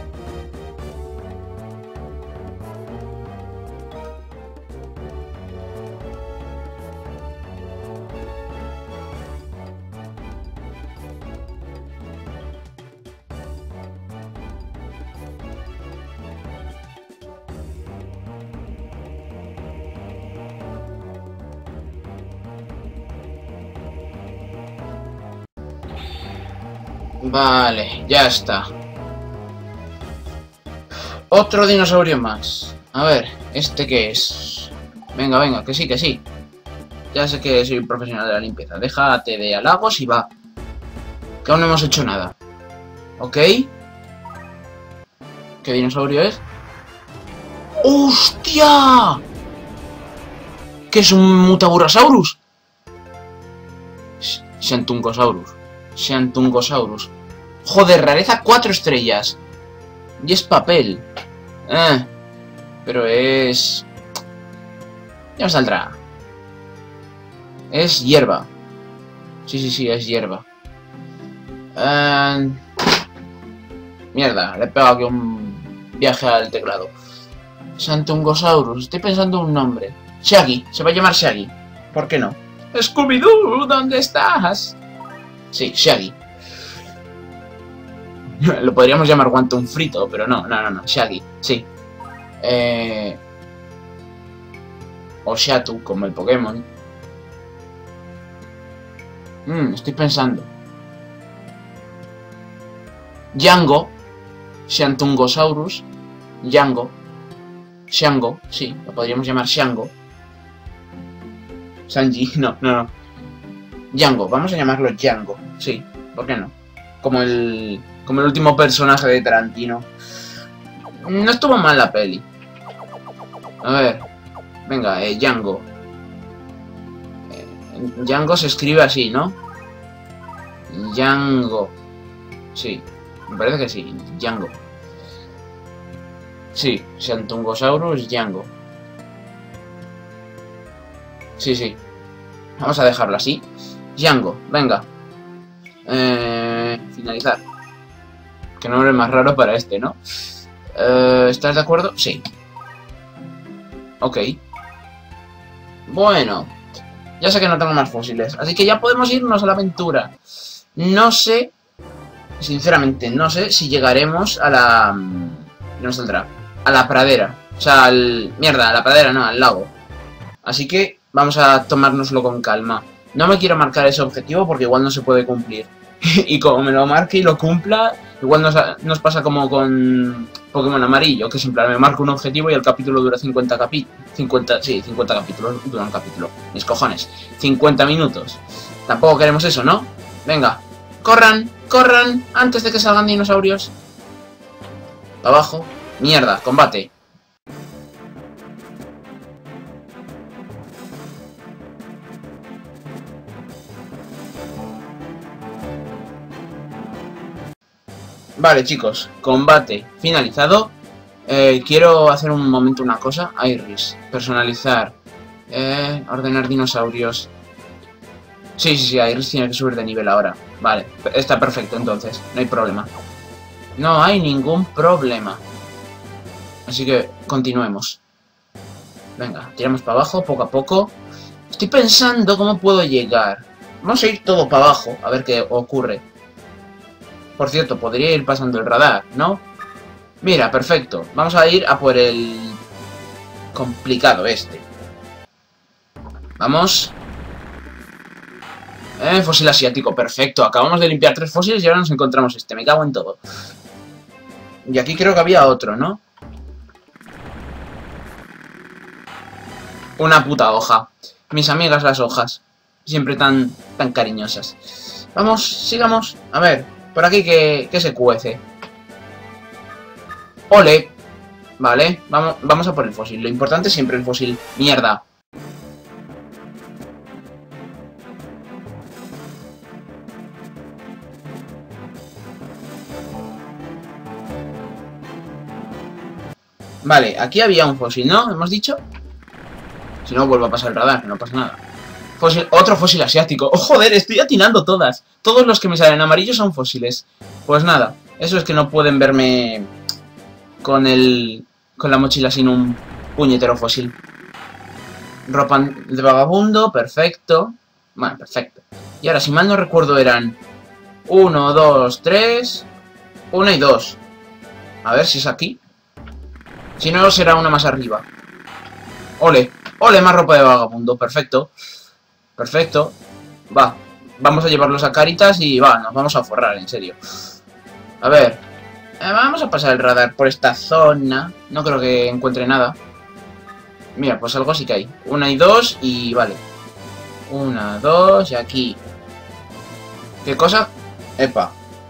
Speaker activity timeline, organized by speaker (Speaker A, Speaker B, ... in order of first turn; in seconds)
Speaker A: 27.2-28.7, 31.3-36.2, 37.1-40.3, 41.4-42.4, 43.2-43.7, 45.6-46.4, 47.8-49.2, 50.9-52.4, 54.2-57.1, 57.6-59.4, 60.2-61.0, 61.7-62.1, 62.8-63.9, 65.4-66.0, 67.7-68.5, 69.5-70.5, 71.8-72.6, 74.1-76.9, 77.8-84.8, 85.5-86.2, 88.4-91.7, 92.4-93.2, 95.2-96.7, 99.5-100.5, 103.3-103.9, 104.7-105.8, 106.4-107.0, 107.9-109.9, 111.9-112.9, 113.9-119.9, 121.0-122.2, 123.6-124.0, 124.7-125.7, 127.3-129.4, 130.7-131.7, 132.5-134.6, 136.5-138.5, 141.4-141.8, 142.6-144.9, 145.8-147.4, 148.6-150.0, 150.7-152.2, 154.0-154.4, 155.8-156.5, 157.2-160.1, 160.8-161.5, 162.4-169.7, 170.4-193.7, 195.2-196.9, 208.4-210.7, 211.2-214.9, 215.5-217.3, 218.6-222.9, 223.8-225.4, 226.7-228.0, 229.2-230.9, 231.5-236.0, 237.4-239.4, 240.2-242.6, 243.5-244.7, 246.4-246.9, 249.0-253.2, 254.6-256.0, 260.0-264.6, 265.1-268.4, 270.5-270.9, 271.6-275.0, 286.8-288.8, 290.0-291.6, 292.2-299.7, 300.6-303.9, 305.2-310.4, 311.1-312.7, 313.3-314.0, 314.8-315.6, 316.8-318.1, 319.2-321.5, 322.4-323.0, 323.5-327.0, 328.0-328.4, 329.0-332.8, 333.9-336.4, 337.3-338.8, 340.2-341.5